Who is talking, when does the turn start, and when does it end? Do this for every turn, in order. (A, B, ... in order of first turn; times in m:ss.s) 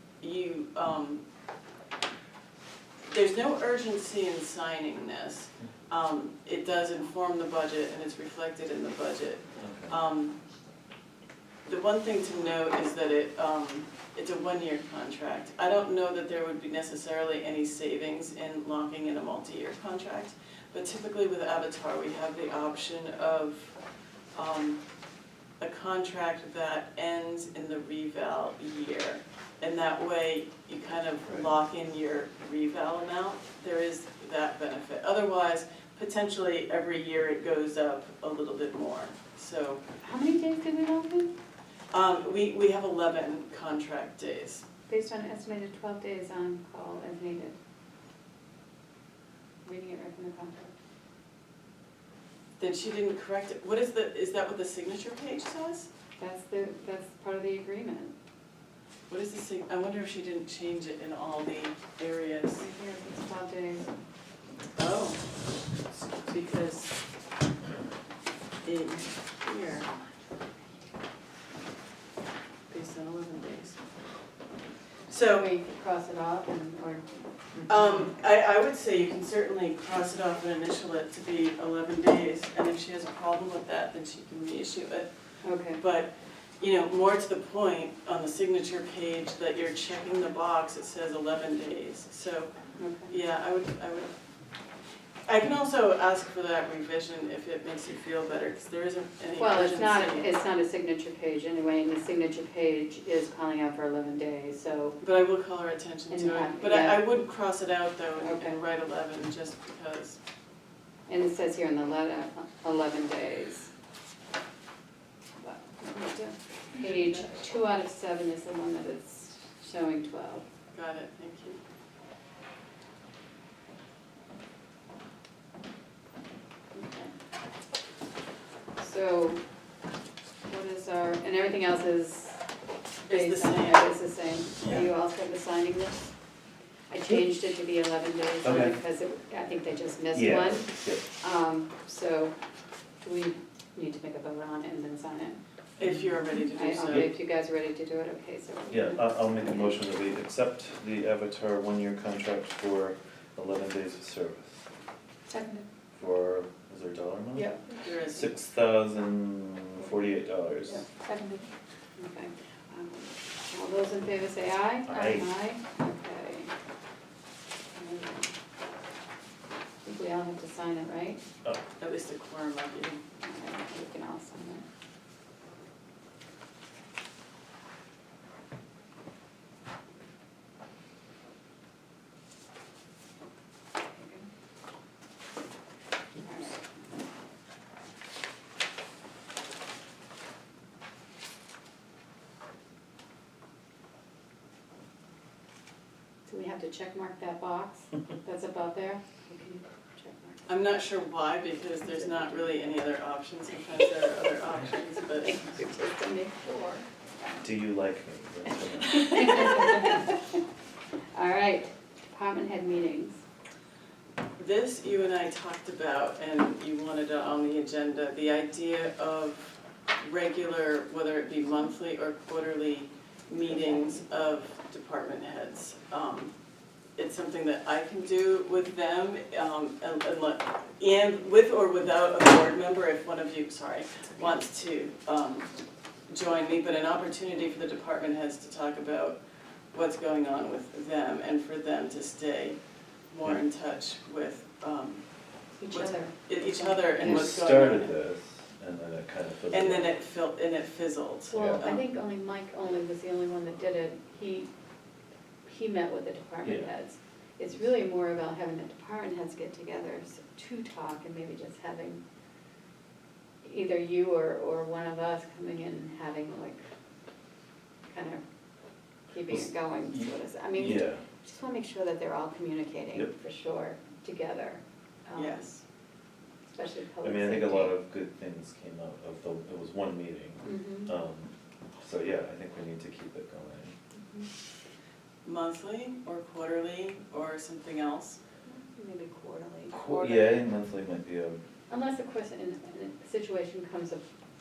0:00.2-0:01.2 A
0:03.1-0:10.4 A
0:09.6-0:09.9 B
0:11.7-0:23.8 A
0:24.3-0:24.8 A
0:25.6-0:39.8 A
0:40.0-0:41.3 C
0:41.9-0:44.6 A
0:44.9-0:47.6 C
0:49.6-0:50.7 C
0:52.6-0:55.9 A
0:56.2-0:58.2 C
0:59.1-1:02.7 A
1:02.6-1:03.9 C
1:04.8-1:05.3 A
1:06.1-1:07.0 A
1:08.6-1:09.9 A
1:12.7-1:13.8 A
1:15.1-1:15.5 A
1:15.4-1:17.2 C
1:17.7-1:25.1 A
1:25.4-1:25.8 C
1:25.7-1:32.5 A
1:32.8-1:33.1 C
1:33.1-1:34.2 A
1:35.3-1:40.3 A
1:39.4-1:45.0 C
1:45.0-1:50.2 A
1:46.1-1:47.1 C
1:48.2-1:48.6 C
1:51.1-1:53.7 C
1:55.4-2:00.4 C
2:00.7-2:01.6 A
2:06.7-2:07.1 C
2:08.8-2:09.4 C
2:10.4-2:12.4 C
2:13.1-2:13.9 A
2:13.1-2:16.1 C
2:14.6-2:14.9 A
2:16.9-2:22.3 C
2:18.4-2:18.8 B
2:20.1-2:21.0 B
2:23.0-2:25.4 C
2:25.8-2:27.1 A
2:26.5-2:29.8 C
2:28.7-2:34.7 B
2:35.3-2:35.6 C
2:36.0-2:37.5 B
2:37.3-2:37.8 C
2:37.8-2:38.3 A
2:38.0-2:40.9 B
2:40.7-2:41.4 C
2:42.0-2:46.5 C
2:44.9-2:45.3 B
2:47.8-2:48.3 C
2:49.8-2:51.2 C
2:51.8-2:53.0 A
2:53.2-2:54.6 C
3:03.9-3:04.3 C
3:06.2-3:06.7 C
3:16.3-3:20.5 C
3:20.5-3:25.6 A
3:21.9-3:22.4 C
3:25.2-3:27.4 C
3:27.4-3:29.6 B
3:28.8-3:30.4 C
3:31.2-3:33.2 C
3:34.4-3:46.3 A
3:43.4-3:43.8 C
3:47.0-3:55.5 A
3:56.1-3:59.2 A
3:59.7-4:02.6 A
4:03.1-4:05.1 A
4:05.6-4:07.4 C
4:05.7-4:08.0 A
4:07.0-4:09.9 B
4:09.5-4:11.8 A
4:11.3-4:14.5 C
4:11.3-4:11.6 B
4:15.4-4:22.0 C
4:23.4-4:26.6 C
4:27.9-4:28.2 C
4:29.1-4:35.6 C
4:29.3-4:31.0 B
4:35.2-4:35.5 A
4:36.5-4:37.7 C
4:37.0-4:43.8 B
4:40.4-4:40.9 C
4:44.0-4:44.3 C
4:45.2-4:48.2 A
4:48.5-4:50.4 C
4:49.7-4:51.4 B
4:51.7-4:54.0 C